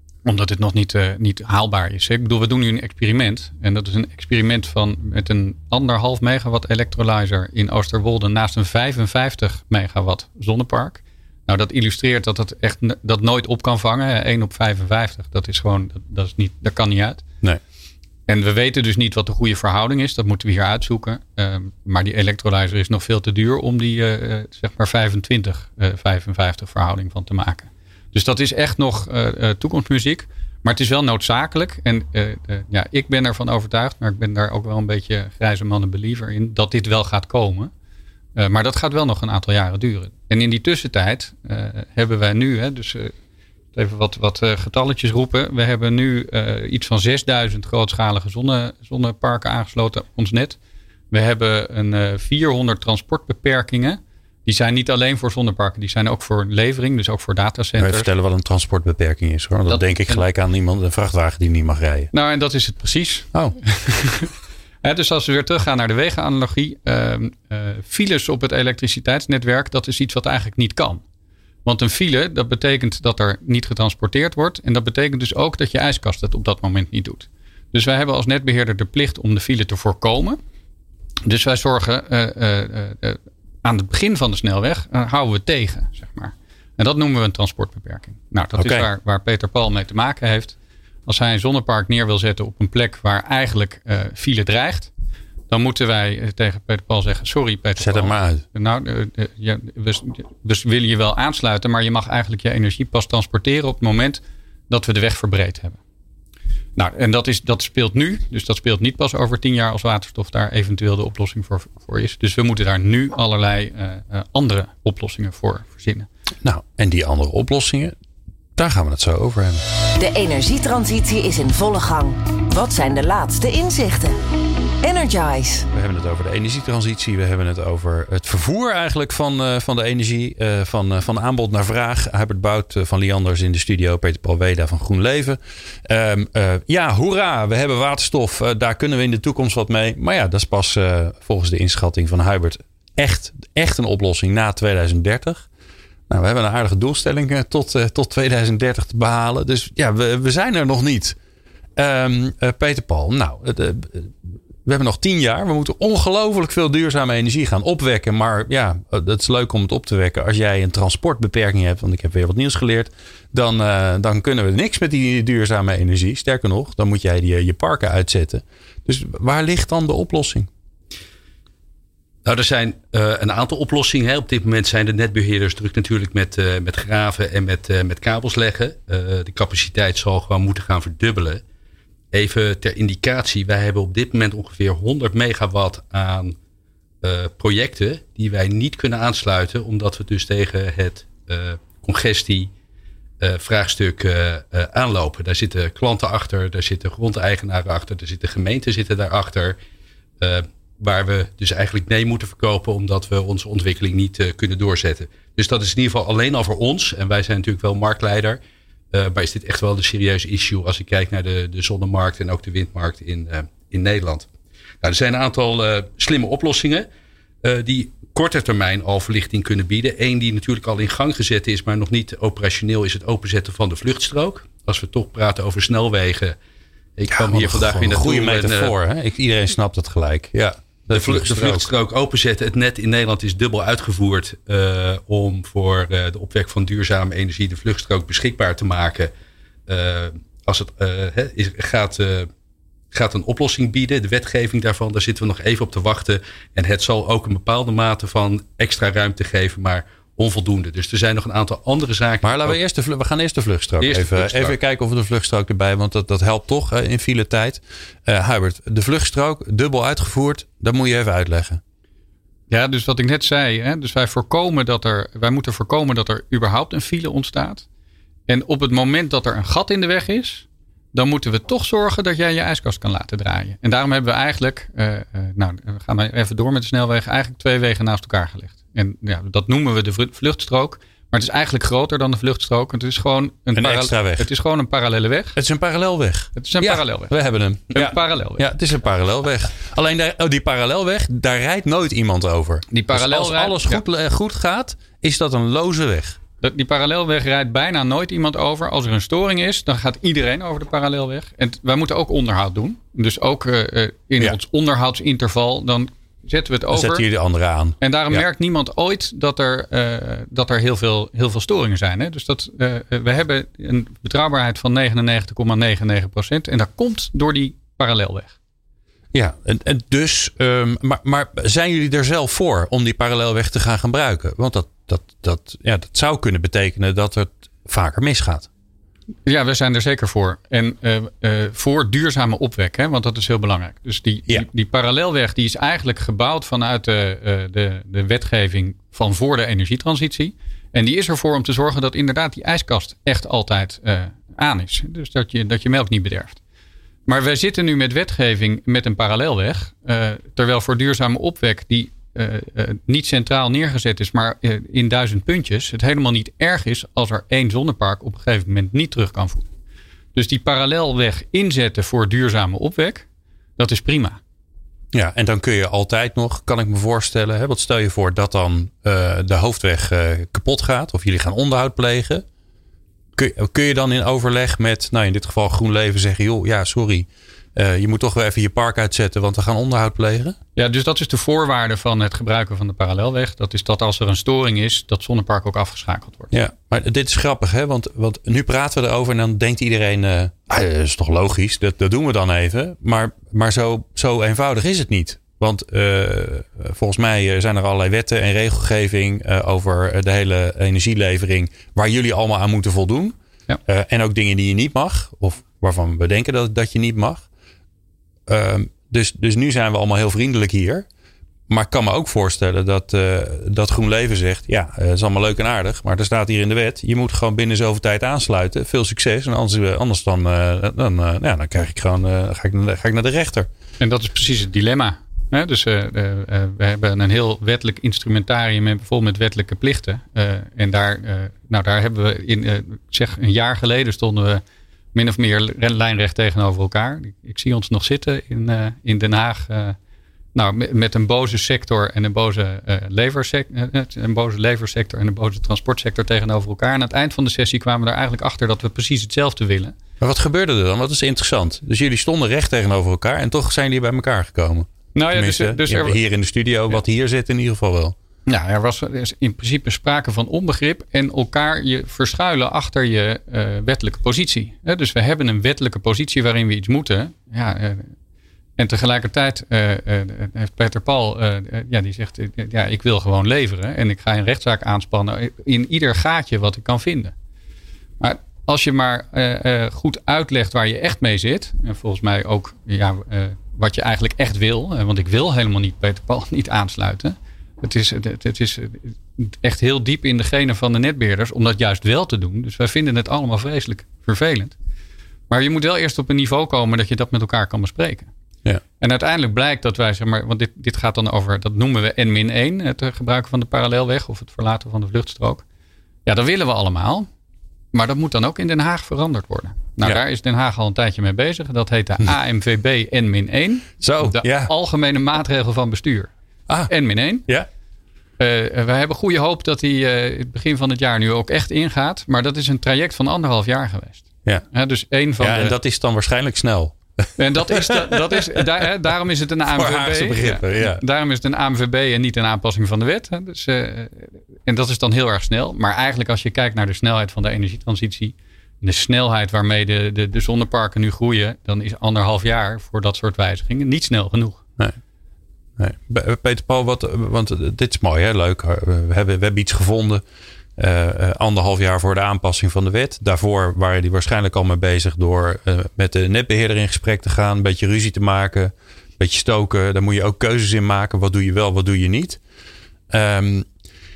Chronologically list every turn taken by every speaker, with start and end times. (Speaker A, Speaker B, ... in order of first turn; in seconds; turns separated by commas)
Speaker A: 0.2-17.2, Speaker A: 18.3-37.7, Speaker A: 38.4-43.1, Speaker A: 43.7-50.6, Speaker A: 51.1-58.1, Speaker B: 57.8-62.1, Speaker A: 59.7-60.2, Speaker A: 62.1-64.3, Speaker A: 64.8-71.0, Speaker A: 71.6-80.4, Speaker A: 81.2-94.9, Speaker B: 88.6-88.9, Speaker A: 95.5-105.8, Speaker B: 97.8-98.4, Speaker A: 106.8-116.1, Speaker B: 116.4-118.0, Speaker B: 118.5-119.6, Speaker C: 120.0-124.2, Speaker C: 124.8-125.7, Speaker B: 125.7-145.5, Speaker B: 146.1-151.2, Speaker B: 151.8-170.5, Speaker D: 172.2-181.4, Speaker D: 182.1-186.4, Speaker D: 187.0-192.5, Speaker D: 193.2-199.6, Speaker D: 200.2-208.4, Speaker D: 208.9-214.3, Speaker D: 214.8-216.9, Speaker D: 217.4-226.4, Speaker D: 226.9-228.7, Speaker B: 227.1-231.7, Speaker D: 230.9-239.1, Speaker D: 239.7-242.3, Speaker D: 242.9-252.6, Speaker B: 252.2-261.6, Speaker D: 253.8-254.5, Speaker A: 262.5-267.6, Speaker A: 268.3-285.4, Speaker B: 283.5-284.3, Speaker B: 285.4-296.2, Speaker A: 286.4-287.1, Speaker A: 287.7-288.5, Speaker A: 292.7-293.8, Speaker A: 296.4-307.1, Speaker B: 306.7-308.2, Speaker A: 307.8-318.4, Speaker B: 319.1-328.5, Speaker A: 329.2-346.4, Speaker A: 347.1-359.5, Speaker A: 360.1-363.1, Speaker A: 363.6-364.2, Speaker B: 364.9-372.2, Speaker B: 373.2-380.4, Speaker A: 380.6-386.3, Speaker B: 386.3-407.2, Speaker B: 408.3-410.9, Speaker B: 411.5-423.5, Speaker A: 423.8-434.4, Speaker A: 434.9-439.8, Speaker A: 440.3-449.7, Speaker B: 450.0-457.9, Speaker A: 454.9-456.0, Speaker A: 458.3-467.9, Speaker A: 468.6-477.1, Speaker A: 478.0-494.5, Speaker A: 495.3-498.1, Speaker A: 498.8-505.4, Speaker A: 506.1-507.1, Speaker A: 507.7-516.1, Speaker B: 513.8-514.5, Speaker A: 516.7-517.3, Speaker A: 518.2-525.5, Speaker B: 525.2-528.6, Speaker A: 527.2-544.4, Speaker B: 529.5-530.8, Speaker B: 545.6-550.0, Speaker B: 550.6-562.2, Speaker B: 562.9-563.5